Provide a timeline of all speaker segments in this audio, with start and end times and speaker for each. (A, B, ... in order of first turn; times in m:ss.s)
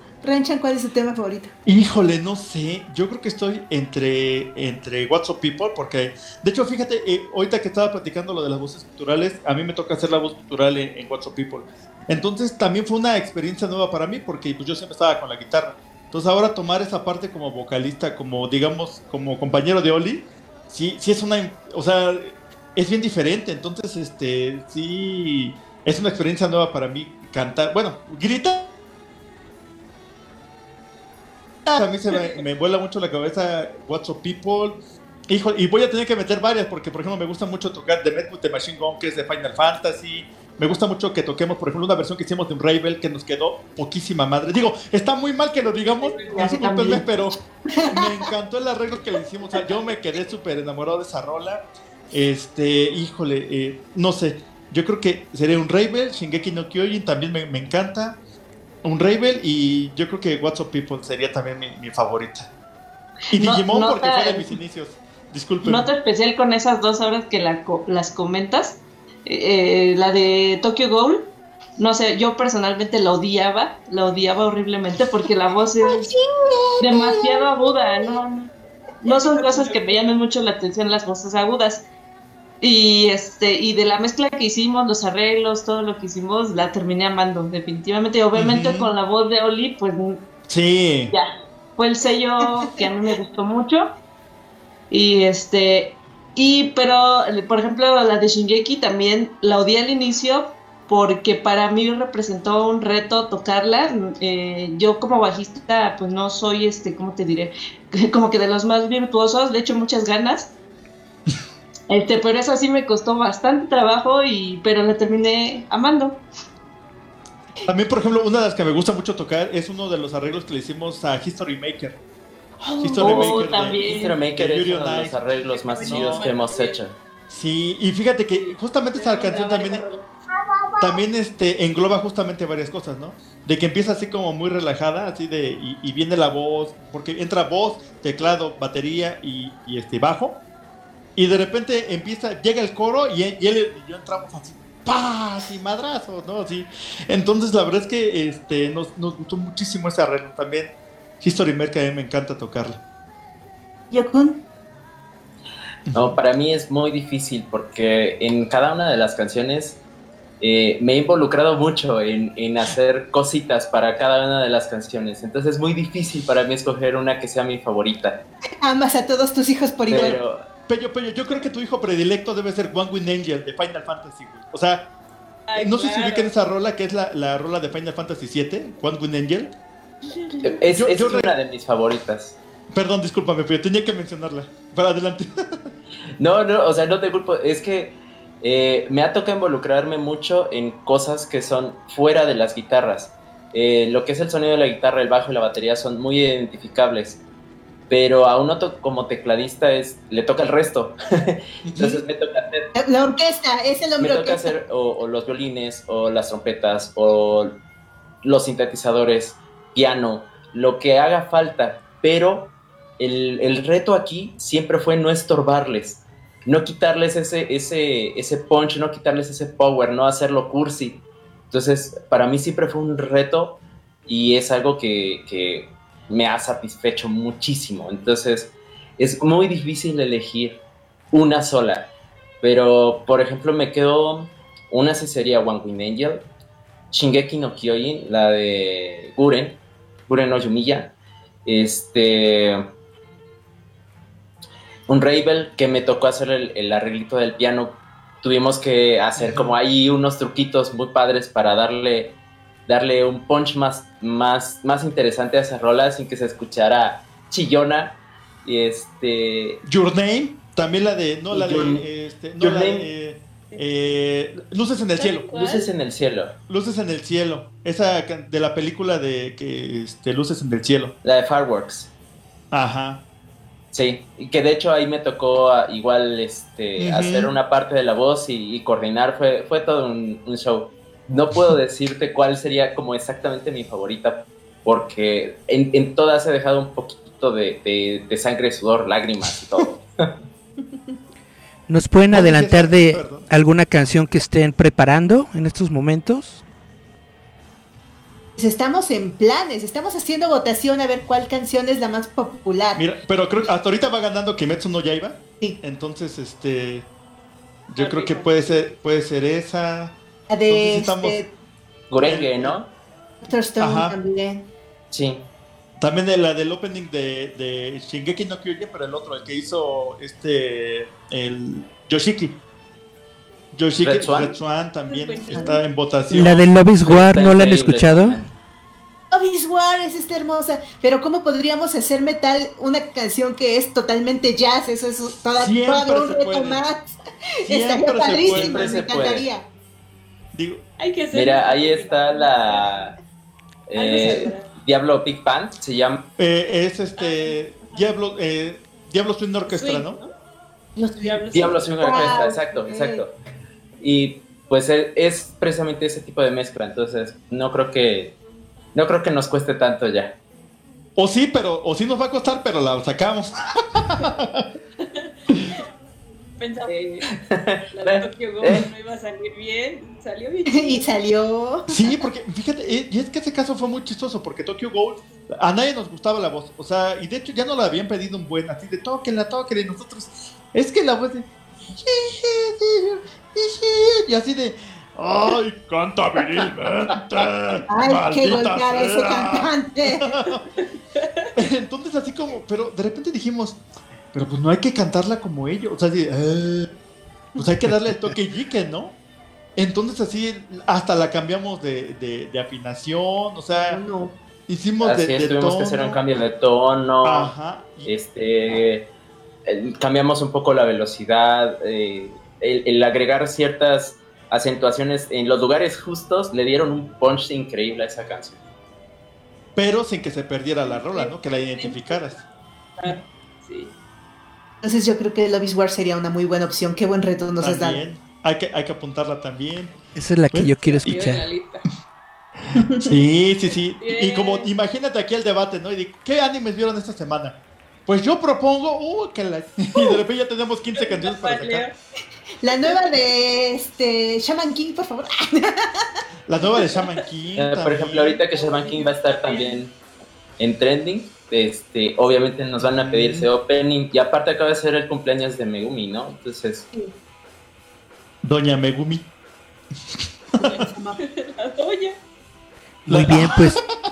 0:00.2-0:01.5 A
0:01.6-0:28.7 B
0:31.6-0:34.8 B
0:35.3-0:47.3 B
0:45.6-0:46.7 C
0:46.3-0:47.0 A
0:47.9-0:58.2 B
0:58.8-1:02.5 B
1:03.3-1:05.9 B
1:03.3-1:04.5 D
1:05.6-1:11.2 D
1:11.8-1:16.1 D
1:15.8-1:17.4 A
1:16.8-1:18.5 D
1:19.0-1:20.0 C
1:19.0-1:21.8 D
1:22.6-1:30.2 D
1:28.3-1:28.9 B
1:30.5-1:31.1 B
1:31.1-1:33.8 D
1:32.6-1:33.1 A
1:34.9-1:50.5 D
1:51.9-1:56.2 D
1:57.7-2:02.0 B
2:02.8-2:05.2 B
2:02.8-2:03.4 C
2:02.9-2:04.1 D
2:03.8-2:06.9 E
2:05.4-2:06.8 C
2:05.7-2:06.3 B
2:07.3-2:09.8 B
2:08.3-2:10.0 C
2:10.8-2:20.4 B
2:21.2-2:32.8 B
2:33.9-2:34.4 A
2:35.9-2:36.2 B
2:35.9-2:39.8 E
2:40.4-2:48.2 E
2:48.6-2:50.2 A
2:49.9-2:50.4 E
2:50.7-2:54.8 B
2:55.5-2:56.3 C
2:55.5-2:59.5 B
3:00.2-3:00.5 C
3:00.4-3:02.4 E
3:00.7-3:01.3 B
3:02.7-3:05.7 B
3:06.2-3:17.2 E
3:17.9-3:22.7 E
3:21.6-3:22.0 B
3:22.7-3:24.6 A
3:24.0-3:27.5 E
3:28.2-3:41.0 E
3:41.5-3:43.5 E
3:44.1-3:50.6 E
3:51.1-3:51.8 E
3:52.4-3:56.2 E
3:56.9-3:59.6 E
4:00.1-4:00.9 E
4:01.4-4:02.6 E
4:04.9-4:12.1 E
4:09.2-4:09.5 B
4:12.7-4:19.6 E
4:19.6-4:25.3 B
4:21.3-4:21.8 E
4:22.4-4:22.9 E
4:24.9-4:25.6 C
4:25.3-4:26.3 E
4:26.5-4:30.9 B
4:31.0-4:31.9 E
4:32.5-4:33.0 B
4:33.7-4:50.1 E
4:36.8-4:37.3 B
4:51.7-4:56.4 F
4:52.1-4:53.2 B
4:58.4-5:02.8 A
5:02.7-5:06.9 B
5:07.7-5:09.9 B
5:07.8-5:08.6 C
5:10.3-5:11.3 A
5:10.5-5:11.2 B
5:11.9-5:12.7 E
5:12.0-5:12.5 B
5:13.2-5:14.4 A
5:13.6-5:13.9 B
5:14.9-5:15.2 E
5:15.8-5:22.4 B
5:23.5-5:26.4 B
5:23.8-5:24.4 E
5:24.8-5:26.4 C
5:26.1-5:28.2 F
5:26.8-5:28.2 E
5:29.1-5:36.8 A
5:35.3-5:36.6 B
5:37.5-5:38.8 B
5:37.5-5:39.4 A
5:38.2-5:39.3 E
5:40.3-5:40.6 B
5:40.8-5:42.9 C
5:41.1-5:42.9 E
5:43.7-5:46.0 E
5:43.7-5:44.6 C
5:44.0-5:44.3 A
5:46.2-5:50.0 B
5:47.0-5:48.1 C
5:49.4-5:50.1 C
5:50.9-5:52.7 C
5:51.3-5:53.1 E
5:51.8-5:53.0 A
5:53.8-5:58.1 E
5:58.7-6:00.1 E
6:01.0-6:04.4 B
6:04.9-6:05.6 C
6:06.4-6:07.1 C
6:07.1-6:08.6 E
6:07.7-6:10.9 C
6:10.6-6:11.7 A
6:11.7-6:30.4 B
6:27.7-6:30.0 A
6:30.5-6:31.3 C
6:31.4-6:33.6 B
6:34.1-6:36.7 B
6:37.4-6:38.9 B
6:39.6-6:43.8 B
6:43.5-6:44.1 A
6:44.5-6:46.0 B
6:44.8-6:47.3 E
6:47.0-6:47.9 B
6:47.8-6:48.8 E
6:49.4-6:58.4 E
6:59.6-7:02.2 B
7:00.6-7:02.2 C
7:02.8-7:03.7 C
7:04.6-7:07.8 A
7:07.4-7:09.7 B
7:09.9-7:11.2 F
7:10.3-7:11.1 B
7:10.6-7:11.6 C
7:12.8-7:17.4 B
7:13.5-7:14.5 C
7:17.9-7:21.6 B
7:20.7-7:21.7 C
7:22.4-7:25.8 A
7:26.3-7:28.2 B
7:27.4-7:29.7 E
7:28.3-7:29.6 C
7:30.4-7:36.6 E
7:32.6-7:33.3 B
7:38.2-7:39.1 B
7:39.9-7:40.5 B
7:40.4-7:42.0 C
7:42.9-7:43.6 F
7:42.9-7:43.7 B